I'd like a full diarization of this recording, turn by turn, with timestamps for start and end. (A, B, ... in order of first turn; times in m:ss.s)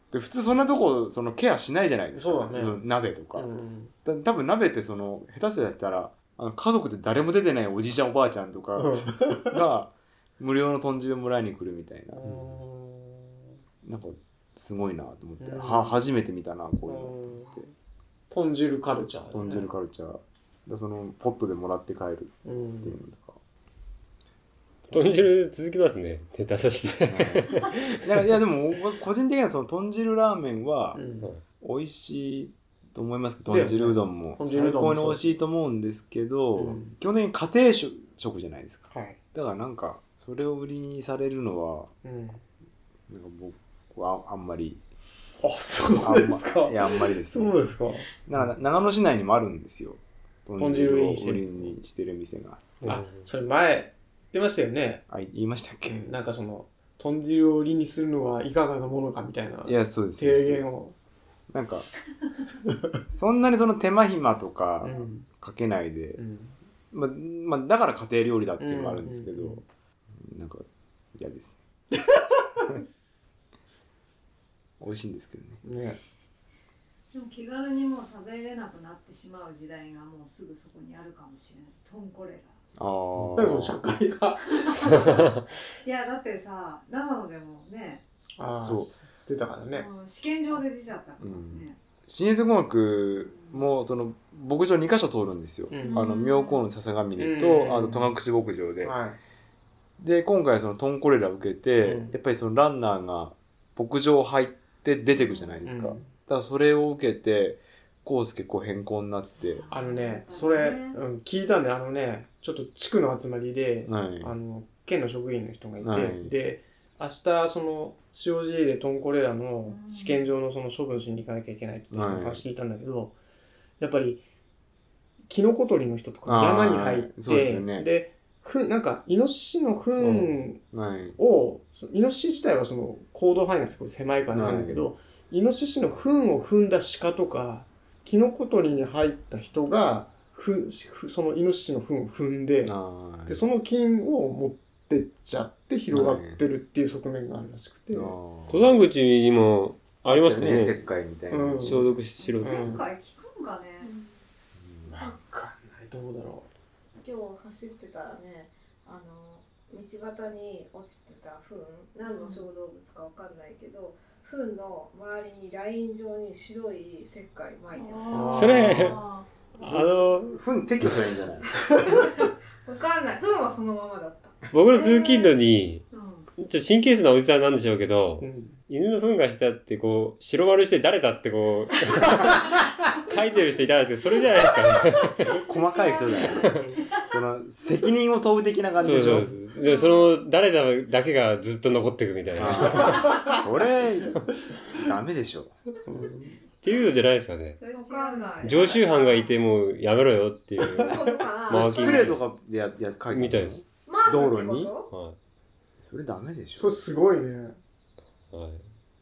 0:00.1-0:03.5 A
0:02.1-0:02.8 B
0:03.3-0:03.9 B
0:04.0-0:12.2 A
0:08.8-0:09.5 B
0:12.1-0:13.5 B
0:13.8-0:17.7 A
0:15.4-0:16.0 B
0:16.9-0:17.6 B
0:18.3-0:19.7 B
0:19.3-0:23.4 A
0:22.4-0:23.0 B
0:24.9-0:28.3 C
0:27.1-0:31.0 A
0:30.9-0:31.3 B
0:31.6-0:41.9 A
0:33.5-0:35.2 B
0:36.6-0:37.0 B
0:38.9-0:39.2 B
0:42.0-0:42.4 B
0:43.1-0:44.8 A
0:45.4-0:48.1 B
0:46.0-0:47.6 A
0:48.2-0:52.8 A
0:50.6-0:51.7 B
0:52.8-0:53.3 C
0:52.8-0:55.0 B
0:55.1-0:56.1 A
0:55.8-1:01.0 B
0:59.7-1:00.6 A
1:01.5-1:01.9 A
1:03.1-1:06.2 A
1:04.8-1:05.3 B
1:06.2-1:06.6 B
1:06.9-1:09.6 A
1:08.6-1:09.6 B
1:10.2-1:11.6 A
1:14.8-1:15.6 A
1:15.6-1:16.0 B
1:17.1-1:22.6 D
1:22.8-1:23.8 A
1:23.4-1:25.2 B
1:24.5-1:28.0 D
1:28.4-1:29.9 B
1:28.6-1:28.9 A
1:29.7-1:31.8 D
1:31.2-1:39.0 A
1:35.7-1:36.1 B
1:35.8-1:36.6 D
1:37.2-1:38.1 B
1:38.8-1:39.2 B
1:40.0-1:49.6 A
1:41.8-1:42.2 B
1:45.3-1:45.6 D
1:45.6-1:46.1 B
1:49.5-1:51.0 D
1:49.7-2:03.2 B
1:53.8-1:54.4 A
1:55.8-1:56.3 A
1:59.7-2:00.2 D
2:01.9-2:02.4 A
2:03.8-2:04.2 B
2:05.3-2:10.6 B
2:06.3-2:07.9 A
2:10.0-2:11.2 A
2:11.2-2:22.7 B
2:14.3-2:14.9 A
2:22.6-2:23.4 A
2:23.3-2:28.2 B
2:25.9-2:26.4 A
2:27.9-2:28.8 A
2:28.5-2:30.8 C
2:30.1-2:31.9 A
2:31.3-2:31.8 B
2:31.6-2:32.7 C
2:32.2-2:33.9 D
2:32.4-2:32.8 B
2:33.8-2:34.2 E
2:34.6-2:35.0 A
2:34.9-2:36.5 B
2:37.0-2:48.7 E
2:42.0-2:42.5 D
2:47.7-2:49.3 D
2:48.1-2:49.0 B
2:48.3-2:49.0 C
2:49.6-2:50.4 C
2:49.6-2:51.8 A
2:51.9-2:54.5 E
2:54.5-2:55.9 C
2:54.8-2:55.3 D
2:55.9-2:56.3 D
2:56.4-3:05.1 C
2:58.2-2:58.6 B
3:05.0-3:06.9 D
3:05.1-3:09.3 A
3:06.4-3:06.7 C
3:08.8-3:13.2 C
3:09.6-3:10.1 D
3:12.4-3:15.6 A
3:12.9-3:13.4 B
3:15.8-3:16.4 B
3:16.6-3:17.6 C
3:17.6-3:19.3 E
3:17.7-3:19.3 D
3:18.4-3:22.2 C
3:20.7-3:22.2 E
3:20.8-3:21.1 B
3:21.5-3:24.7 A
3:23.1-3:23.6 C
3:23.9-3:24.9 E
3:24.9-3:25.2 C
3:25.8-3:26.8 A
3:26.6-3:27.6 B
3:28.3-3:28.7 C